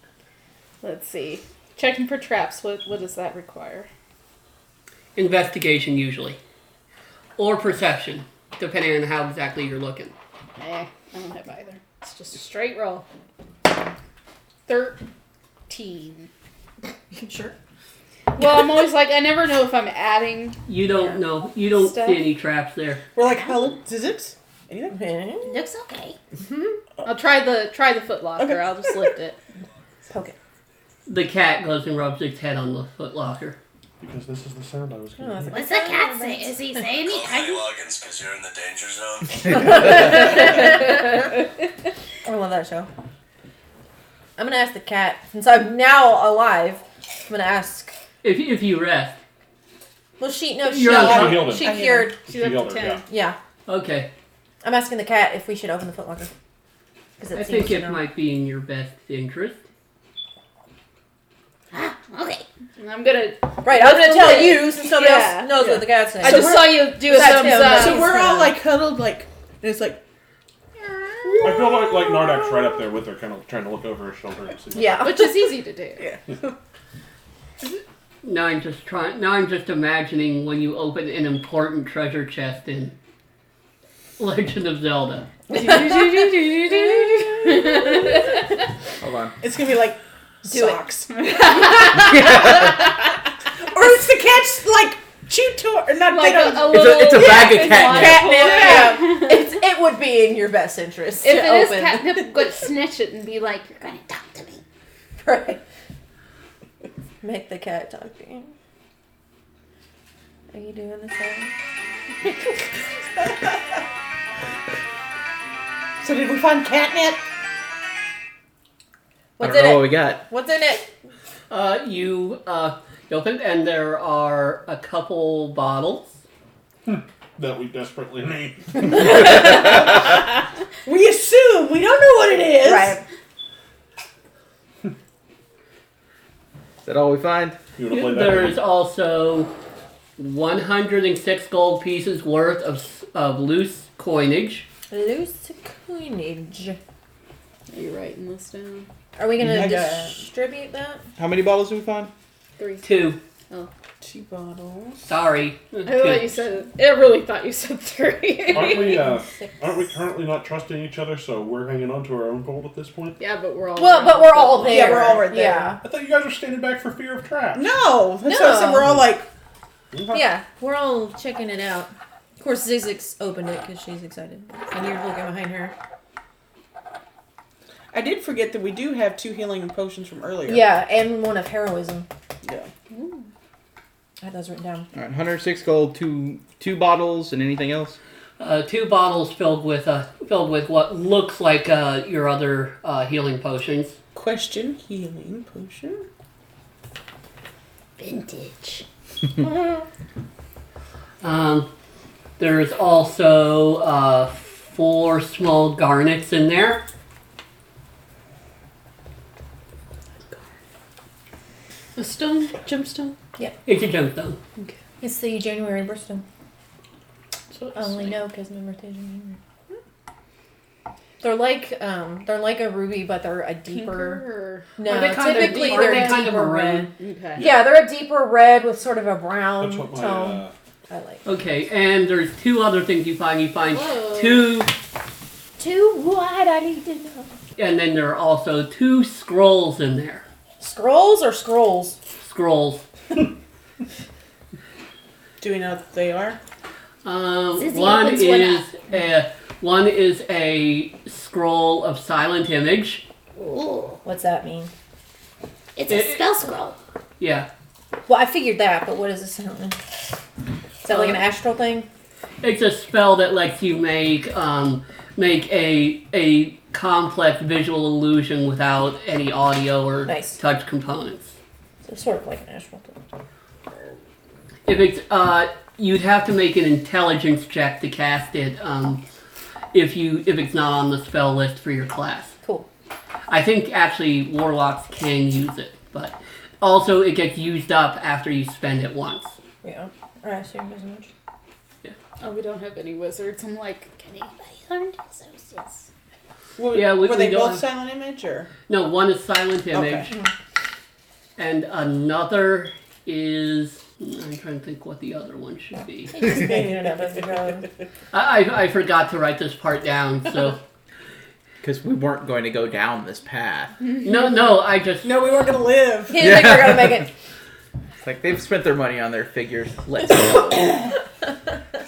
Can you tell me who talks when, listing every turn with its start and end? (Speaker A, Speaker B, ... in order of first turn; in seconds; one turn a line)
Speaker A: 0.8-3.9
Speaker B: 5.2-6.4
Speaker B: 7.4-10.1
Speaker A: 10.6-13.1
Speaker A: 14.7-15.0
Speaker A: 15.7-16.3
Speaker C: 17.1-17.6
Speaker A: 18.3-20.6
Speaker B: 20.7-23.0
Speaker A: 21.7-22.3
Speaker D: 23.1-25.0
Speaker C: 24.9-25.6
Speaker E: 25.4-26.2
Speaker C: 26.4-26.8
Speaker A: 27.1-29.4
Speaker D: 28.4-28.8
Speaker C: 30.1-30.4
Speaker B: 31.1-33.6
Speaker F: 34.0-35.8
Speaker C: 35.2-36.6
Speaker E: 35.5-37.7
Speaker G: 37.0-40.0
Speaker C: 39.5-41.4
Speaker C: 42.2-42.9
Speaker C: 44.4-47.9
Speaker B: 48.2-49.2
Speaker C: 50.2-52.1
Speaker B: 50.7-51.5
Speaker F: 51.0-53.0
Speaker A: 51.6-53.0
Speaker C: 53.1-53.4
Speaker B: 53.7-54.1
Speaker C: 54.6-56.3
Speaker C: 57.2-58.0
Speaker B: 57.3-59.6
Speaker E: 61.7-62.4
Speaker A: 62.8-68.5
Speaker C: 63.6-68.6
Speaker D: 65.5-70.0
Speaker D: 71.2-71.9
Speaker F: 71.4-75.1
Speaker C: 74.7-75.5
Speaker A: 75.0-76.1
Speaker D: 76.0-76.5
Speaker B: 78.2-83.0
Speaker B: 84.2-85.2
Speaker C: 85.5-88.1
Speaker A: 85.5-88.4
Speaker H: 89.0-89.3
Speaker D: 89.4-92.6
Speaker C: 90.5-90.8
Speaker A: 91.2-92.0
Speaker H: 91.9-92.8
Speaker D: 93.6-99.2
Speaker A: 96.1-99.5
Speaker H: 96.6-98.3
Speaker C: 98.0-102.2
Speaker A: 101.2-103.7
Speaker E: 103.6-104.6
Speaker C: 105.2-105.6
Speaker C: 107.2-108.5
Speaker C: 110.5-111.5
Speaker D: 116.0-117.2
Speaker C: 119.4-120.9
Speaker H: 119.4-120.2
Speaker B: 121.5-126.2
Speaker F: 126.8-129.2
Speaker D: 128.9-130.2
Speaker D: 130.8-133.0
Speaker C: 132.6-133.0
Speaker H: 136.8-137.6
Speaker F: 137.8-138.6
Speaker B: 137.9-139.5
Speaker B: 140.2-144.7
Speaker C: 144.9-146.8
Speaker A: 147.7-148.9
Speaker C: 149.2-151.0
Speaker H: 149.4-150.0
Speaker D: 149.6-150.1
Speaker H: 151.2-152.1
Speaker A: 152.6-153.7
Speaker B: 152.8-153.2
Speaker D: 154.0-155.1
Speaker B: 155.1-156.3
Speaker A: 155.8-159.1
Speaker F: 158.5-163.2
Speaker C: 158.5-159.9
Speaker A: 163.2-165.2
Speaker C: 163.8-165.8
Speaker D: 164.7-165.8
Speaker F: 165.8-167.8
Speaker D: 167.5-169.3
Speaker C: 168.2-169.0
Speaker F: 169.9-170.3
Speaker C: 170.1-175.7
Speaker D: 177.9-180.7
Speaker C: 180.4-182.1
Speaker D: 182.4-182.7
Speaker A: 182.9-183.3
Speaker C: 184.2-184.9
Speaker H: 184.9-188.0
Speaker B: 188.4-194.0
Speaker D: 194.1-196.1
Speaker E: 198.0-198.8
Speaker B: 201.2-201.7
Speaker B: 202.4-206.8
Speaker A: 211.9-213.1
Speaker B: 213.7-214.4
Speaker C: 215.0-216.2
Speaker A: 217.5-218.2
Speaker C: 217.7-219.4
Speaker C: 221.2-224.2
Speaker A: 223.7-226.4
Speaker C: 224.8-231.2
Speaker B: 224.9-226.9
Speaker A: 227.0-227.5
Speaker F: 227.3-227.7
Speaker F: 229.6-230.5
Speaker B: 231.2-234.7
Speaker A: 233.7-234.6
Speaker C: 235.6-237.3
Speaker B: 237.6-240.2
Speaker C: 240.6-242.0
Speaker B: 242.2-242.8
Speaker D: 245.4-246.4
Speaker B: 247.0-253.0
Speaker E: 247.6-248.7
Speaker E: 253.3-254.0
Speaker C: 254.0-254.7
Speaker E: 255.8-256.8
Speaker B: 255.9-256.3
Speaker B: 257.2-257.5
Speaker C: 258.1-259.8
Speaker C: 260.8-261.9
Speaker B: 262.4-271.4
Speaker C: 270.1-270.4
Speaker C: 271.8-273.0
Speaker B: 274.7-279.0
Speaker B: 279.7-282.3
Speaker C: 282.4-282.7
Speaker B: 283.3-289.4
Speaker C: 289.6-291.1
Speaker A: 292.2-295.9
Speaker D: 296.6-298.5
Speaker B: 296.7-297.6
Speaker B: 298.7-300.1
Speaker D: 299.7-300.1
Speaker B: 301.4-306.2
Speaker C: 306.1-307.6
Speaker D: 306.4-306.7
Speaker B: 308.1-310.6
Speaker H: 311.6-313.8
Speaker A: 313.9-314.4
Speaker B: 314.0-315.3
Speaker D: 315.0-316.2
Speaker C: 316.1-317.1
Speaker H: 316.2-317.1
Speaker H: 318.0-320.7